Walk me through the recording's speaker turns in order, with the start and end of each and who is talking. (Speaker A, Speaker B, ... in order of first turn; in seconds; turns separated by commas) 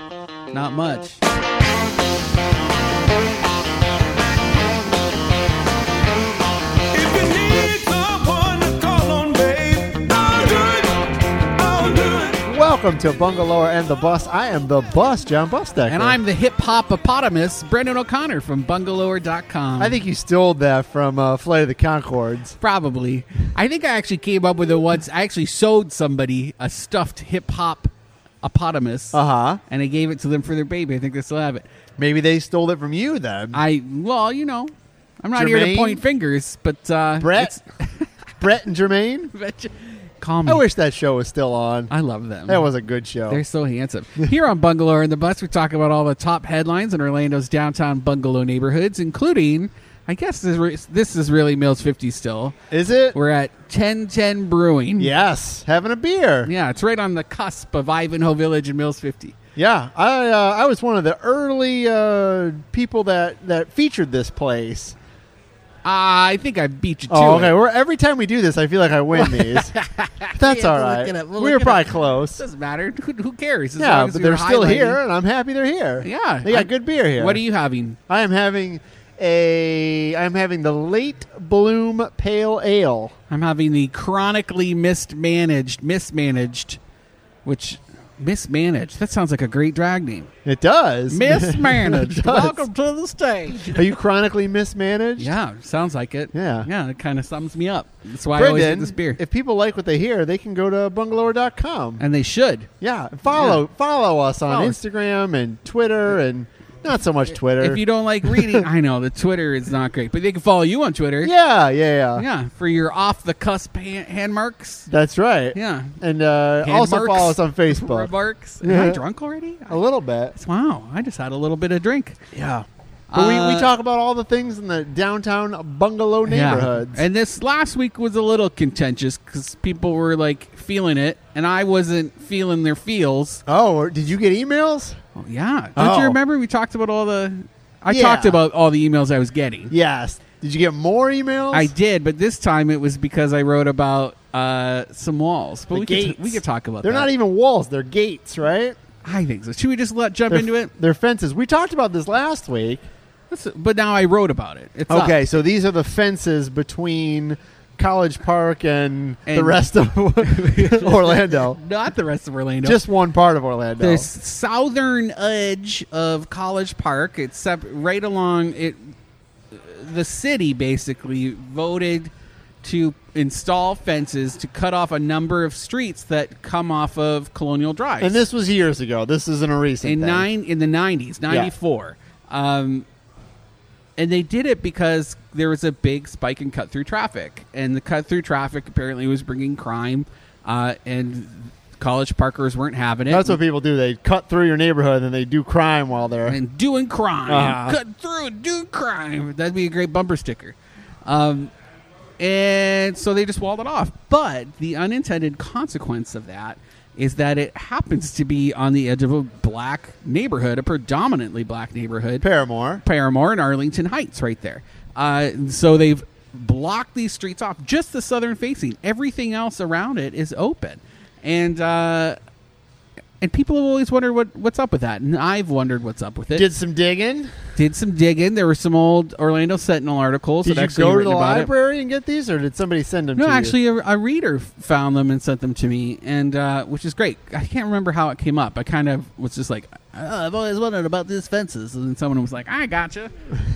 Speaker A: 0.5-1.2, Speaker B: 6.9-12.4, Speaker C: 12.3-16.2, Speaker A: 15.9-19.9, Speaker C: 19.8-22.6, Speaker A: 22.6-27.9, Speaker A: 28.4-31.6, Speaker C: 29.1-29.6, Speaker C: 32.0-33.6, Speaker A: 33.5-38.1, Speaker C: 35.4-36.0, Speaker C: 37.2-37.6, Speaker C: 38.4-39.3, Speaker A: 39.3-40.6, Speaker C: 40.5-41.9, Speaker A: 41.9-42.6, Speaker C: 42.5-43.4, Speaker A: 43.3-52.5, Speaker C: 52.7-53.2, Speaker A: 53.1-55.1, Speaker C: 55.0-56.5, Speaker A: 56.4-59.4, Speaker C: 59.5-65.0, Speaker A: 65.8-67.5, Speaker C: 67.1-69.7, Speaker A: 69.1-75.0, Speaker C: 70.3-72.4, Speaker C: 73.8-77.4, Speaker A: 76.0-78.0, Speaker C: 78.1-83.1, Speaker A: 83.3-86.8, Speaker A: 87.4-90.3, Speaker C: 90.4-92.6, Speaker A: 91.1-93.9, Speaker C: 93.5-95.3, Speaker A: 95.2-99.2, Speaker C: 96.3-96.7, Speaker C: 98.3-102.0, Speaker A: 102.0-102.7, Speaker C: 102.8-108.6, Speaker A: 103.3-103.6, Speaker A: 104.5-104.8, Speaker A: 107.6-111.3, Speaker C: 111.2-112.2, Speaker A: 112.2-114.9, Speaker C: 114.9-118.1, Speaker A: 115.5-116.0, Speaker A: 116.6-119.8, Speaker C: 118.6-119.0, Speaker C: 119.7-120.3, Speaker A: 120.3-122.2, Speaker C: 122.3-127.0, Speaker A: 123.1-123.7, Speaker A: 126.2-133.4, Speaker C: 133.4-135.0, Speaker A: 135.1-139.7, Speaker C: 135.8-136.2, Speaker C: 137.9-138.4, Speaker C: 139.7-141.7, Speaker A: 141.5-147.1, Speaker C: 145.7-148.8, Speaker A: 149.0-150.7, Speaker C: 150.3-152.8, Speaker A: 153.3-155.2, Speaker C: 154.9-161.6, Speaker A: 159.3-159.7, Speaker A: 160.2-162.8, Speaker C: 162.6-164.1, Speaker A: 163.8-168.9, Speaker A: 169.5-172.1, Speaker A: 172.6-178.2, Speaker C: 178.0-180.3, Speaker A: 179.8-182.8, Speaker A: 184.0-193.4, Speaker C: 193.1-196.4, Speaker A: 196.3-201.5, Speaker C: 197.3-197.8, Speaker A: 202.2-212.2, Speaker C: 212.2-212.8, Speaker A: 212.8-222.2, Speaker A: 223.2-226.5, Speaker C: 226.3-227.3, Speaker A: 227.6-231.5, Speaker C: 230.4-233.6, Speaker A: 233.2-243.1